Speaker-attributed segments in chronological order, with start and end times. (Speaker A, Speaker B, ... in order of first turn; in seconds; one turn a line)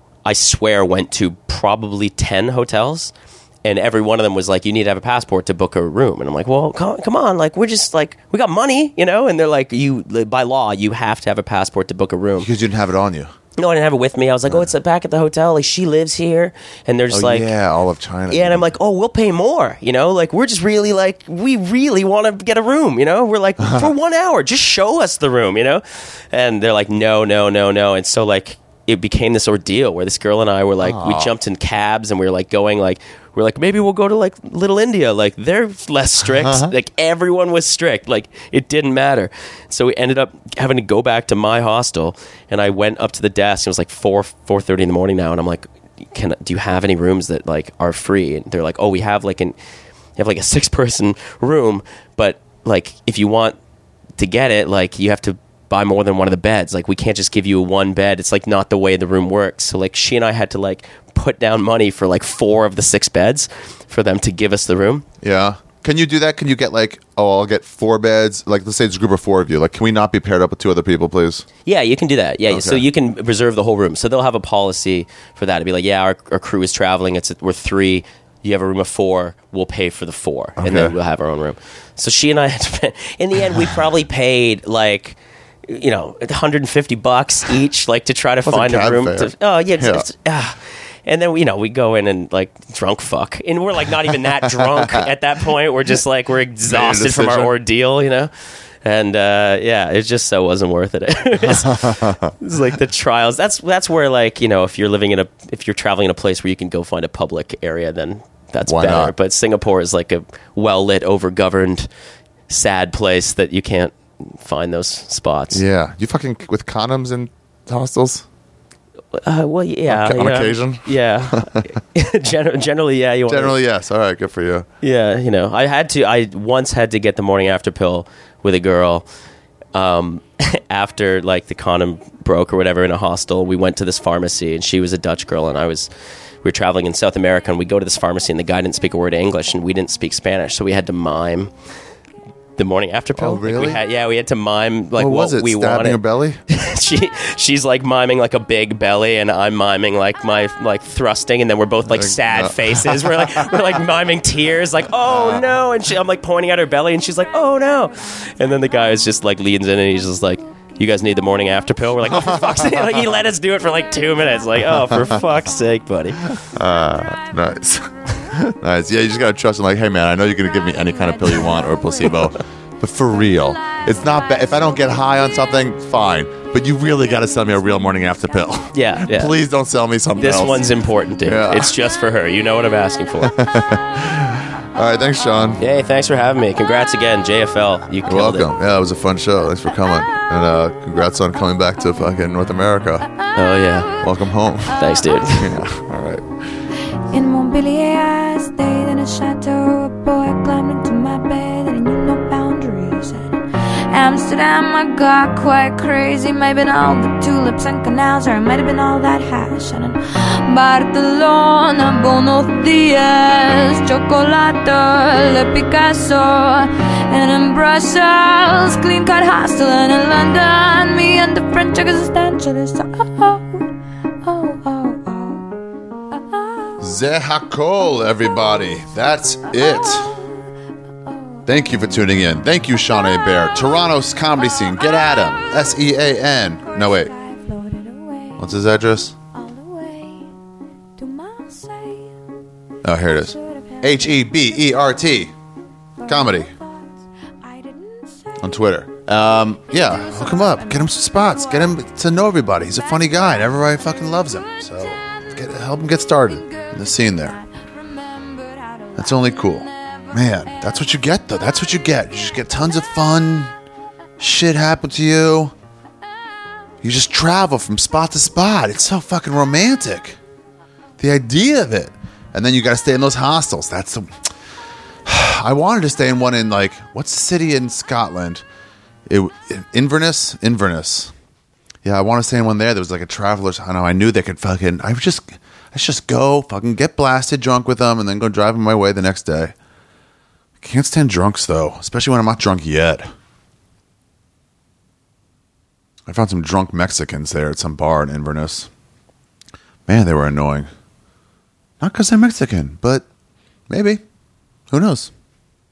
Speaker A: 0.2-12.5
Speaker B: 12.4-13.3
Speaker A: 13.6-17.5
Speaker B: 17.1-18.7
Speaker A: 18.3-49.5
Speaker B: 23.6-23.9
Speaker B: 30.8-31.3
Speaker B: 36.3-36.7
Speaker A: 50.2-53.6
Speaker A: 54.2-65.0
Speaker B: 65.2-71.5
Speaker A: 71.7-98.3
Speaker B: 72.5-72.8
Speaker B: 80.6-80.9
Speaker B: 88.5-90.1
Speaker B: 94.7-95.0
Speaker B: 96.7-97.5
Speaker A: 98.8-111.9
Speaker B: 101.5-102.3
Speaker B: 108.7-109.1
Speaker A: 112.5-115.6
Speaker B: 115.5-118.2
Speaker A: 119.1-123.6
Speaker B: 119.9-121.8
Speaker B: 123.3-124.7
Speaker A: 124.8-129.0
Speaker A: 129.7-135.9
Speaker A: 136.4-141.5
Speaker A: 142.6-166.3
Speaker B: 143.2-143.8
Speaker B: 144.9-146.4
Speaker B: 151.9-153.5
Speaker B: 155.1-155.5
Speaker B: 162.1-162.9
Speaker C: 163.8-164.6
Speaker B: 166.4-180.7
Speaker C: 170.5-172.4
Speaker C: 173.6-175.5
Speaker C: 176.9-179.0
Speaker A: 178.7-179.4
Speaker A: 180.2-183.3
Speaker B: 181.2-181.7
Speaker B: 183.2-185.6
Speaker A: 185.6-188.5
Speaker B: 188.0-193.1
Speaker A: 193.3-193.9
Speaker B: 194.0-196.2
Speaker A: 194.7-195.6
Speaker C: 197.1-223.7
Speaker C: 224.2-225.4
Speaker C: 226.2-226.8
Speaker B: 226.8-230.1
Speaker C: 227.9-228.6
Speaker C: 229.4-230.4
Speaker C: 231.0-231.5
Speaker B: 231.4-237.1
Speaker C: 232.8-238.6
Speaker B: 238.4-239.1
Speaker C: 239.3-240.3
Speaker C: 241.0-242.1
Speaker B: 242.8-245.3
Speaker C: 243.0-244.9
Speaker C: 246.0-248.5
Speaker B: 246.1-246.5
Speaker B: 248.4-257.4
Speaker C: 249.7-251.8
Speaker C: 252.6-260.9
Speaker B: 258.9-263.5
Speaker B: 264.2-265.5
Speaker B: 266.8-270.2
Speaker B: 271.0-274.1
Speaker B: 275.0-278.4
Speaker B: 279.1-281.1
Speaker B: 281.8-289.5
Speaker B: 290.6-293.1
Speaker B: 296.1-298.7
Speaker B: 299.9-300.7
Speaker B: 301.8-303.0
Speaker B: 303.7-304.0
Speaker B: 304.7-305.1